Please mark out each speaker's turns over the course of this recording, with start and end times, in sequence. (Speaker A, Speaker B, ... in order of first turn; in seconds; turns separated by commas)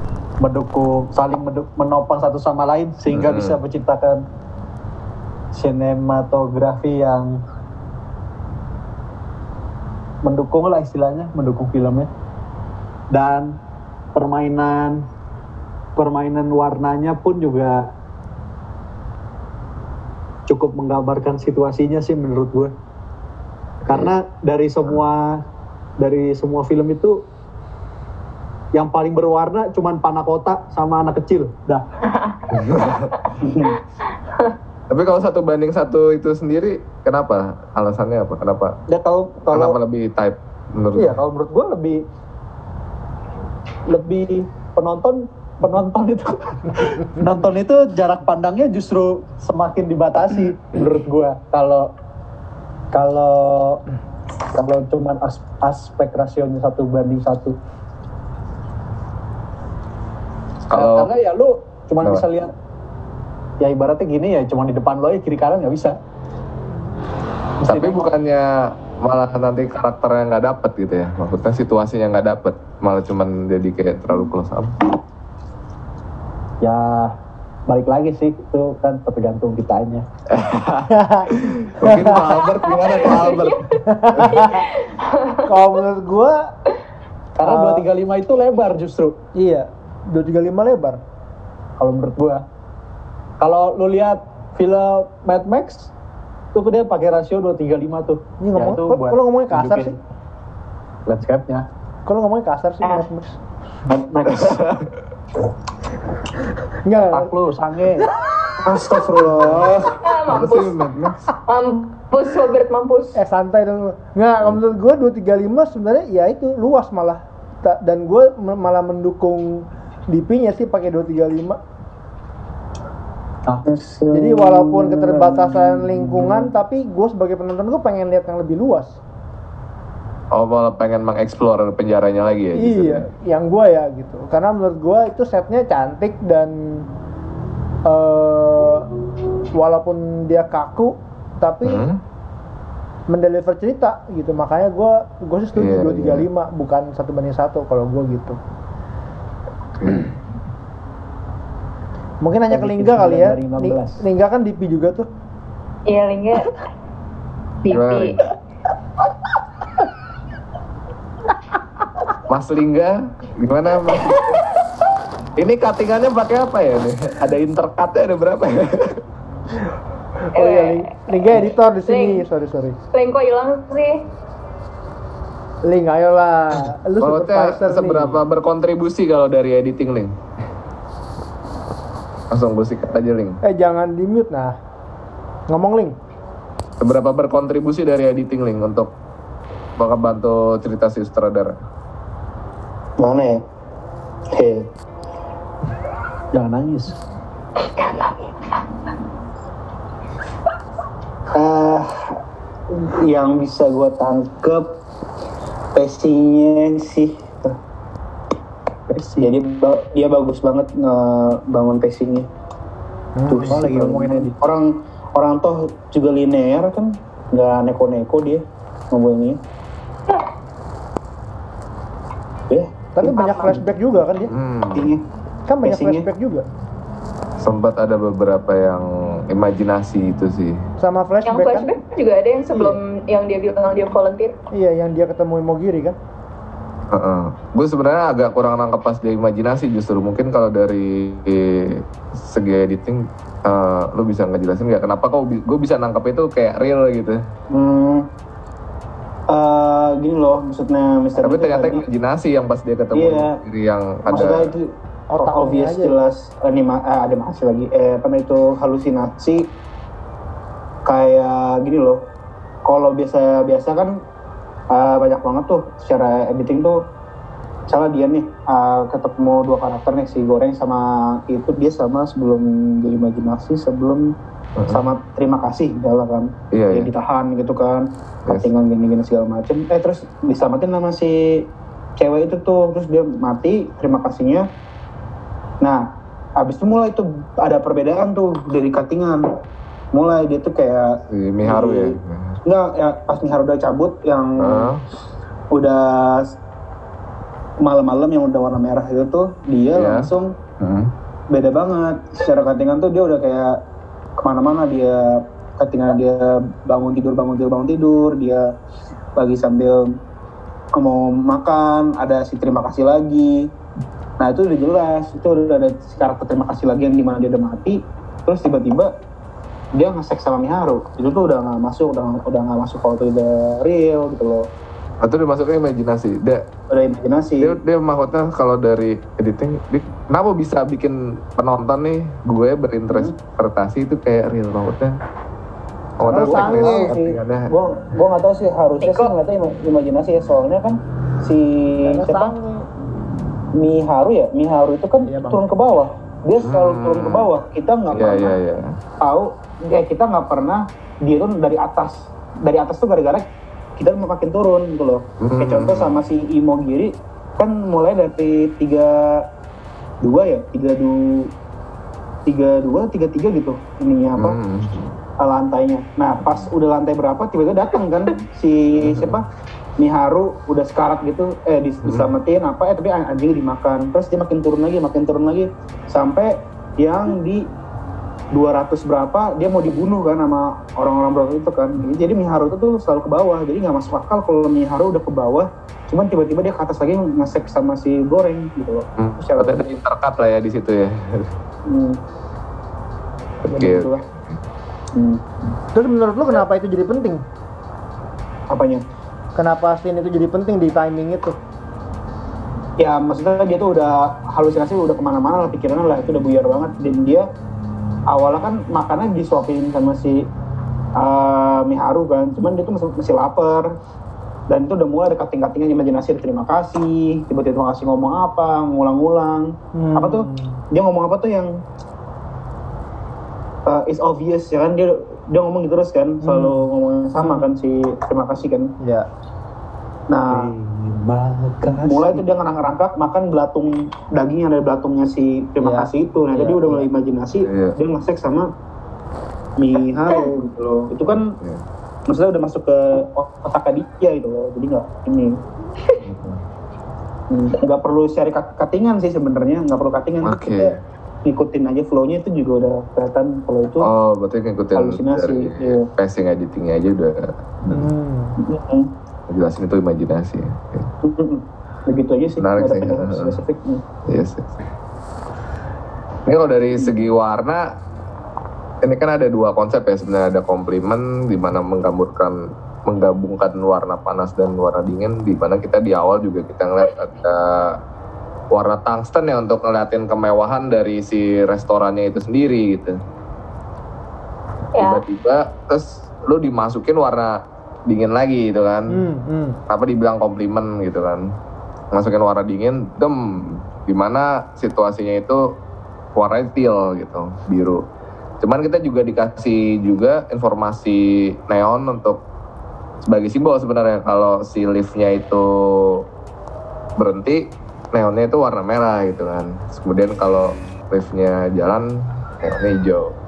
Speaker A: 0.4-4.2, Speaker B: 3.1-3.6, Speaker A: 5.5-7.4, Speaker A: 10.2-12.1, Speaker A: 13.1-13.5, Speaker A: 14.1-15.0, Speaker A: 15.9-17.9, Speaker A: 20.5-22.7, Speaker B: 23.9-24.1, Speaker A: 23.9-25.4, Speaker A: 26.0-27.2, Speaker A: 28.7-31.8, Speaker C: 32.1-32.6, Speaker B: 32.5-33.1, Speaker D: 33.4-33.8, Speaker B: 34.9-38.8, Speaker A: 38.9-39.8, Speaker B: 39.5-41.2, Speaker A: 41.0-42.0, Speaker A: 43.9-51.9, Speaker A: 52.9-53.8, Speaker A: 54.5-57.6, Speaker B: 60.7-61.1, Speaker A: 60.7-62.5, Speaker A: 63.6-66.0, Speaker A: 67.6-68.1, Speaker B: 67.7-74.8, Speaker A: 76.6-77.1, Speaker A: 77.7-80.0, Speaker B: 80.3-84.4, Speaker E: 80.9-82.3, Speaker C: 82.3-85.5, Speaker E: 83.8-84.7, Speaker E: 85.4-86.5, Speaker E: 87.4-87.8, Speaker A: 87.4-89.2, Speaker E: 89.3-91.0, Speaker A: 91.8-92.4, Speaker A: 93.4-95.9, Speaker A: 96.5-100.0, Speaker E: 98.4-100.0, Speaker A: 101.1-101.6, Speaker E: 102.0-103.4, Speaker D: 103.9-104.7, Speaker B: 104.4-104.8, Speaker E: 106.8-107.3, Speaker A: 107.1-108.1, Speaker D: 108.6-110.0, Speaker A: 109.2-109.8, Speaker C: 110.0-110.8, Speaker B: 110.2-111.2, Speaker C: 111.5-113.1, Speaker E: 113.2-121.6, Speaker D: 123.6-126.5, Speaker E: 124.1-129.0, Speaker B: 130.3-133.1, Speaker E: 132.6-136.9, Speaker E: 137.8-138.9, Speaker E: 139.5-141.9, Speaker B: 141.6-142.0, Speaker E: 143.1-148.4, Speaker B: 145.5-146.2, Speaker B: 149.8-150.1, Speaker E: 152.2-155.1, Speaker A: 152.5-154.0, Speaker C: 155.9-156.6, Speaker C: 157.6-158.2, Speaker B: 157.7-158.2, Speaker B: 162.3-164.4, Speaker B: 165.4-169.0, Speaker E: 170.2-172.8, Speaker C: 170.3-170.9, Speaker C: 171.9-172.2, Speaker C: 172.9-174.0, Speaker E: 175.6-178.2, Speaker B: 177.0-180.1, Speaker B: 182.3-183.4, Speaker E: 183.4-184.6, Speaker E: 185.5-185.9, Speaker B: 186.8-188.9, Speaker B: 189.8-191.5, Speaker D: 193.0-193.4, Speaker D: 194.3-194.7, Speaker A: 196.3-196.9, Speaker C: 197.8-198.1, Speaker D: 201.3-202.1, Speaker D: 202.7-204.8, Speaker D: 205.7-207.6, Speaker A: 208.9-209.3, Speaker D: 209.2-212.3, Speaker E: 213.2-213.6, Speaker D: 213.3-219.4, Speaker A: 213.5-214.4, Speaker D: 222.5-223.6, Speaker E: 222.9-224.3, Speaker B: 224.3-224.9, Speaker D: 224.7-225.0, Speaker E: 225.5-226.4, Speaker D: 225.6-226.1, Speaker B: 227.4-230.6, Speaker E: 230.8-231.7, Speaker C: 231.2-234.3, Speaker E: 234.5-236.0, Speaker B: 236.9-247.2, Speaker D: 247.5-248.0, Speaker D: 249.3-251.8, Speaker B: 251.2-254.5, Speaker D: 252.9-253.4, Speaker D: 254.1-259.4, Speaker E: 255.1-255.9, Speaker D: 260.9-262.0, Speaker D: 262.6-263.9, Speaker D: 264.7-266.8, Speaker D: 267.7-274.1, Speaker B: 274.6-274.9, Speaker D: 274.7-284.4, Speaker B: 276.5-276.9, Speaker D: 285.6-285.9, Speaker D: 286.4-289.2, Speaker D: 289.9-291.9, Speaker B: 291.1-292.4, Speaker D: 292.4-294.8, Speaker B: 294.4-294.8, Speaker D: 295.5-296.3, Speaker D: 297.6-300.3, Speaker B: 299.7-300.9, Speaker D: 301.3-303.5, Speaker D: 304.2-308.4, Speaker D: 309.1-309.9, Speaker D: 310.7-313.4, Speaker D: 314.2-318.9, Speaker D: 319.7-324.4, Speaker B: 325.0-326.4, Speaker D: 326.7-327.6, Speaker B: 327.4-334.9, Speaker D: 336.0-342.3, Speaker B: 336.0-337.5, Speaker E: 336.1-336.9, Speaker C: 338.8-339.1, Speaker E: 341.8-342.6, Speaker D: 343.5-348.4, Speaker E: 345.1-345.4, Speaker B: 346.4-347.3, Speaker B: 347.9-348.8, Speaker D: 349.0-353.2, Speaker D: 353.8-359.2, Speaker B: 355.2-356.0, Speaker D: 360.0-361.3, Speaker D: 362.2-364.4, Speaker B: 364.2-364.9, Speaker D: 365.2-369.2, Speaker B: 368.8-369.2, Speaker D: 369.8-377.4, Speaker D: 378.3-389.8, Speaker B: 389.0-391.3, Speaker D: 391.7-392.0, Speaker B: 393.4-394.0, Speaker D: 393.5-394.0, Speaker D: 394.9-395.2, Speaker E: 395.7-397.2, Speaker D: 398.5-398.8, Speaker E: 399.4-401.4, Speaker D: 402.8-407.2, Speaker D: 408.1-410.2, Speaker D: 410.9-413.6, Speaker D: 414.5-421.5, Speaker E: 419.7-420.6, Speaker D: 423.6-428.7, Speaker E: 426.2-426.6, Speaker E: 427.2-427.4, Speaker E: 428.8-429.1, Speaker D: 430.1-430.5, Speaker A: 430.3-432.2, Speaker D: 431.7-438.5, Speaker E: 435.6-436.8, Speaker B: 437.4-437.8, Speaker D: 439.6-441.4, Speaker B: 441.3-441.6, Speaker D: 442.1-445.4, Speaker B: 446.0-446.4, Speaker D: 447.3-450.7, Speaker B: 450.2-450.8, Speaker D: 451.2-453.9, Speaker B: 453.8-457.8, Speaker D: 454.8-455.9, Speaker E: 457.7-458.4, Speaker D: 458.4-458.9, Speaker B: 459.3-460.9, Speaker D: 461.0-463.8, Speaker B: 462.4-463.4, Speaker B: 464.1-464.6, Speaker B: 466.2-467.6, Speaker B: 468.8-477.8, Speaker B: 478.5-483.0, Speaker B: 484.7-489.0, Speaker C: 484.8-485.0, Speaker E: 488.9-489.6, Speaker B: 489.7-491.3, Speaker B: 491.9-495.4, Speaker B: 496.1-497.8, Speaker B: 498.4-502.2, Speaker B: 503.0-506.0, Speaker B: 507.0-513.1